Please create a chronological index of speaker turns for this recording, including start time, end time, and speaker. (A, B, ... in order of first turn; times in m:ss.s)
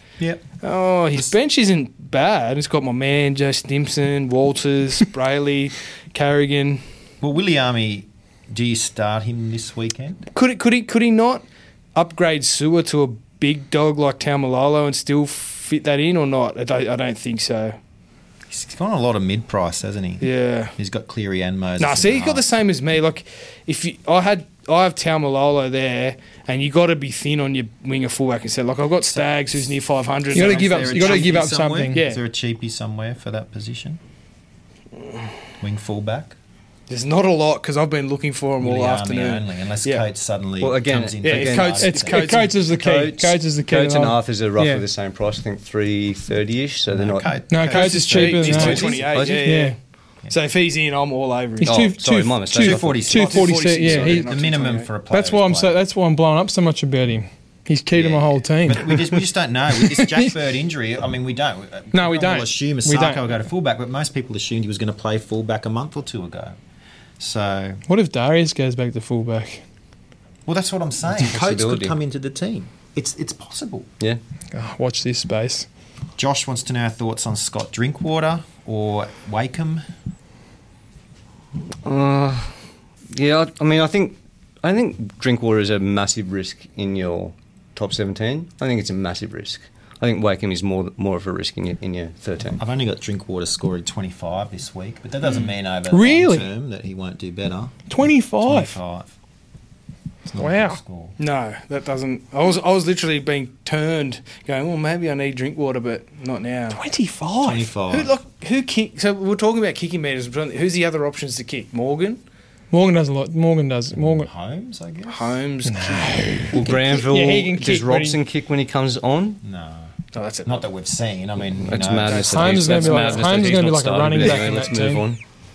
0:00.2-0:00.4 A
0:00.6-0:06.8 B
0:07.2-0:10.2 A
0:10.3-0:11.4 B
0:11.9-0:17.8 B
0:18.5-0:22.5 A
0:20.2-0:20.7 B
0:21.8-0:31.3 B
0:29.1-0:29.7 A
0:30.3-0:34.0 A
0:30.3-0:32.0 C
0:31.9-0:32.2 B
0:35.6-0:36.4 A
0:36.9-0:40.0 B
0:38.6-0:42.2 A
0:40.6-0:47.3 D
0:41.2-0:42.5 B
0:41.8-0:44.8 C
0:46.9-0:49.0 A
0:47.5-0:49.8 C
0:47.7-0:49.8 B
0:48.3-0:49.6 D
0:50.3-0:51.8 B
0:51.6-0:54.3 C
0:51.6-0:53.0 D
0:52.5-0:55.8 A
0:53.1-0:54.9 B
0:55.1-0:59.2 C
0:57.9-1:06.6 A
0:59.8-1:00.3 C
1:01.9-1:03.2 C
1:07.2-1:07.8 A
1:07.9-1:09.6 C
1:10.4-1:13.9 A
1:11.2-1:12.0 D
1:14.5-1:15.7 C
1:16.2-1:19.8 A
1:21.8-1:22.6 D
1:23.1-1:32.6 D
1:32.5-1:37.9 A
1:35.9-1:36.5 C
1:37.9-1:38.7 C
1:38.4-1:39.1 A
1:40.3-1:41.2 A
1:40.4-1:40.8 C
1:41.2-1:46.8 B
1:46.7-1:47.7 C
1:47.4-1:48.2 A
1:47.9-1:52.2 B
1:52.7-1:54.3 C
1:53.9-1:55.4 A
1:55.1-1:56.7 B
1:55.6-1:58.2 C
1:56.5-1:59.4 D
1:59.4-1:59.9 A
2:00.1-2:00.7 B
2:00.4-2:02.7 A
2:01.6-2:05.2 D
2:02.0-2:03.3 B
2:02.3-2:05.0 C